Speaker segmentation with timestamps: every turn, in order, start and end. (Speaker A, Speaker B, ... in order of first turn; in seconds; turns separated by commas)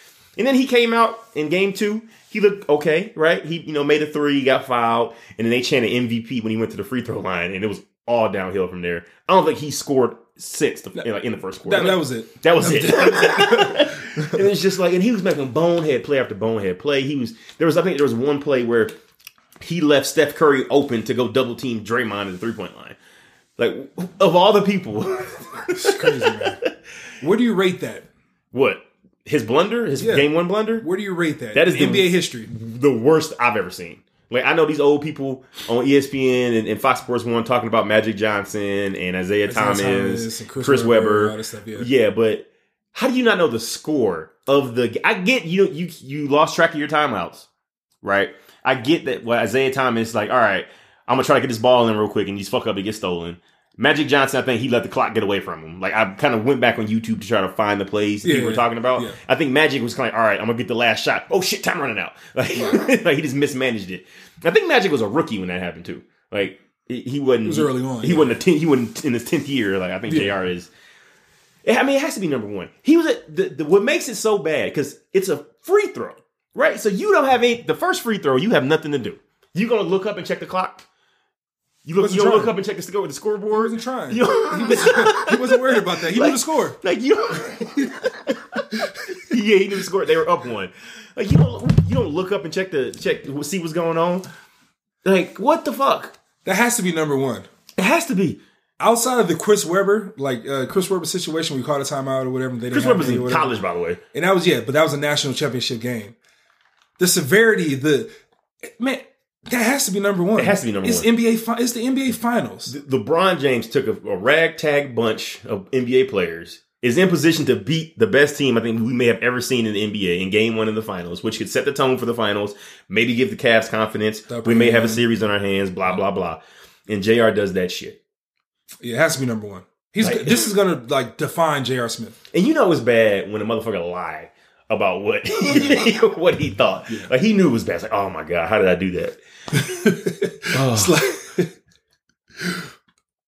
Speaker A: 0.4-18.9, Speaker B: 11.6-14.4, Speaker A: 19.6-22.9, Speaker A: 23.6-26.7, Speaker B: 25.7-26.6, Speaker B: 27.2-28.1, Speaker A: 28.5-30.9, Speaker B: 30.0-30.3, Speaker B: 30.8-32.5, Speaker A: 31.5-47.5, Speaker B: 39.5-41.9, Speaker A: 48.0-70.7, Speaker B: 58.2-59.2, Speaker B: 67.4-68.4, Speaker B: 70.1-70.3, Speaker A: 71.6-80.8, Speaker A: 81.8-94.2, Speaker B: 82.0-82.5, Speaker B: 83.5-86.8, Speaker B: 88.8-89.2, Speaker A: 95.0-96.1, Speaker B: 96.4-97.5, Speaker A: 97.8-98.4, Speaker B: 98.8-103.5, Speaker A: 102.7-104.0, Speaker B: 104.1-106.1, Speaker B: 107.0-108.1, Speaker B: 108.6-112.7, Speaker A: 110.4-111.1, Speaker A: 112.7-128.0, Speaker B: 124.3-125.0, Speaker B: 128.8-132.2, Speaker A: 130.0-130.5, Speaker A: 132.3-139.2, Speaker B: 139.5-141.5, Speaker A: 140.5-141.0, Speaker B: 142.4-142.6